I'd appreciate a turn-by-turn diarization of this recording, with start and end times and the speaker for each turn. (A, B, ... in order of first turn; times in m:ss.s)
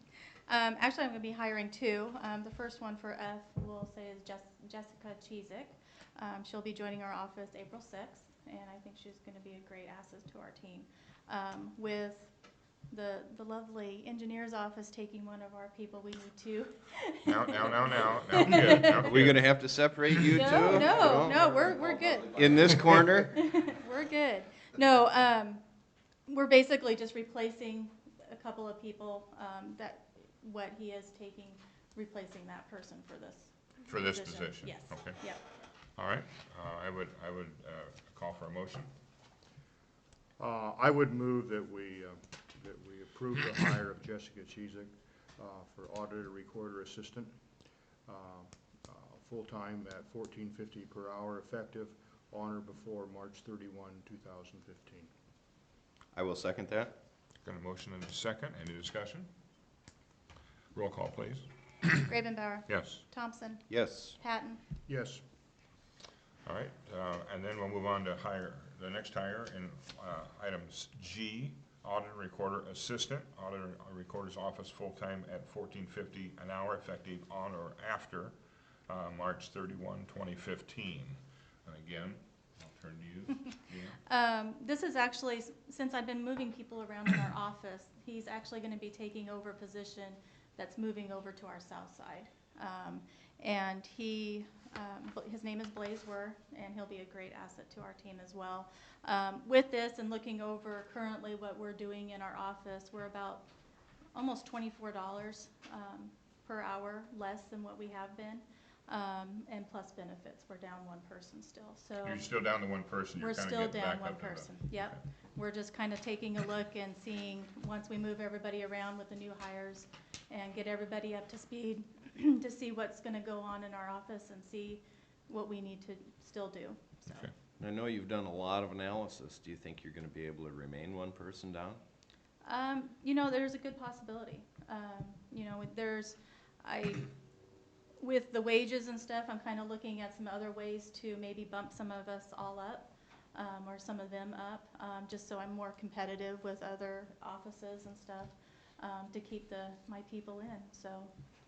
0:00.5-0:12.3 A
0:12.9-0:19.1 A
0:17.2-0:19.5 B
0:19.0-0:21.6 C
0:20.2-0:25.6 A
0:22.3-0:23.4 C
0:26.3-0:35.4 A
0:33.9-0:35.2 B
0:36.0-0:38.9 B
0:40.4-0:47.3 D
0:48.1-0:55.1 D
0:56.1-0:57.0 C
0:57.4-0:59.3 B
1:00.7-1:01.5 B
1:02.0-1:04.6 A
1:02.7-1:03.0 B
1:03.7-1:04.2 C
1:04.9-1:05.2 D
1:06.5-1:18.3 B
1:18.9-1:24.0 B
1:24.1-1:43.5 A
1:44.1-1:52.3 A
1:52.0-1:54.5 B
1:53.2-2:07.3 A
2:07.6-2:11.8 C
2:12.4-2:17.1 A
2:18.0-2:31.1 A